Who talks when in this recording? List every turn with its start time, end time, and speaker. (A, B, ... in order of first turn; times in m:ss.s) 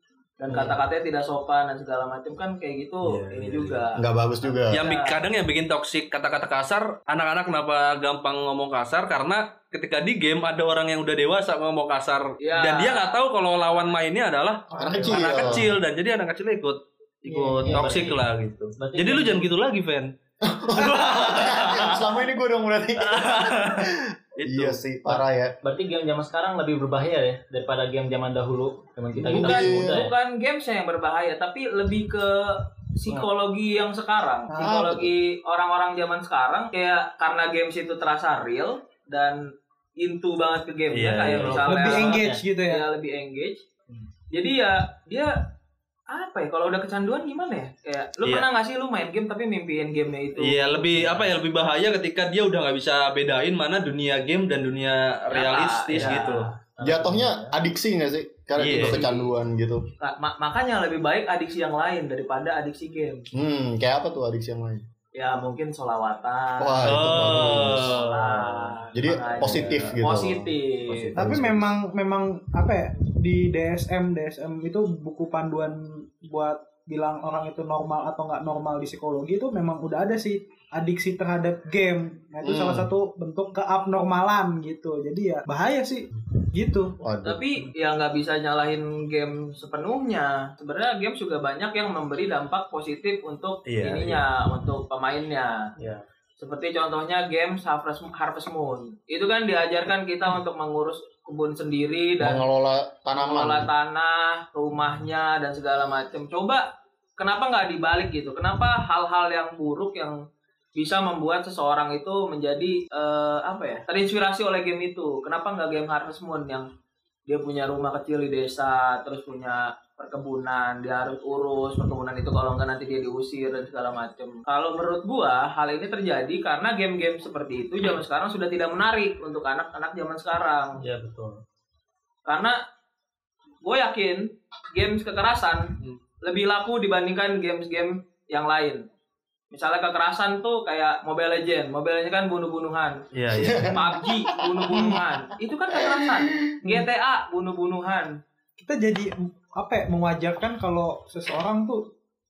0:00.4-0:05.2 A
0:03.0-0:03.8 B
0:04.0-0:04.8 C
0:04.7-0:20.1 B
0:12.4-0:14.0 A
0:14.7-0:15.5 D
0:14.8-0:15.7 C
0:17.3-0:17.9 D
0:17.6-0:18.2 E
0:18.8-0:19.5 E
0:20.4-0:25.6 C
0:20.7-0:22.1 B
0:23.0-0:25.2 B
0:25.6-0:30.1 E
0:29.2-0:30.0 C
0:29.3-0:39.4 A
0:34.5-0:34.8 D
0:34.6-0:35.1 C
0:40.0-0:43.6 A
0:40.9-0:42.0 B
0:41.4-0:42.4 E
0:41.7-0:42.8 D
0:44.3-0:45.4 A
0:46.1-0:51.2 A
0:50.4-0:56.5 B
0:55.3-0:56.5 A
0:56.8-0:57.6 E
0:56.8-0:59.8 C
0:58.6-0:59.0 B
0:58.6-0:59.3 A
1:00.0-1:03.2 A
1:03.3-1:04.8 C
1:05.2-1:11.2 A
1:06.6-1:07.9 C
1:06.8-1:08.1 B
1:07.8-1:09.9 E
1:08.9-1:11.8 C
1:11.2-1:27.0 D
1:22.4-1:22.9 C
1:27.0-1:27.4 C
1:27.2-1:35.7 A
1:33.7-1:34.2 B
1:35.8-1:36.0 E
1:36.4-1:42.4 A
1:42.2-1:43.7 C
1:43.2-1:46.6 A
1:47.2-1:50.2 A
1:50.8-1:56.7 A
1:57.3-2:10.8 A
2:10.8-2:11.4 E
2:12.3-2:12.6 A
2:13.6-2:18.8 A
2:19.5-2:23.0 A
2:23.1-2:23.8 B
2:23.3-2:25.0 C
2:23.6-2:28.2 A
2:24.7-2:25.0 D
2:25.7-2:26.6 C
2:28.6-2:31.8 D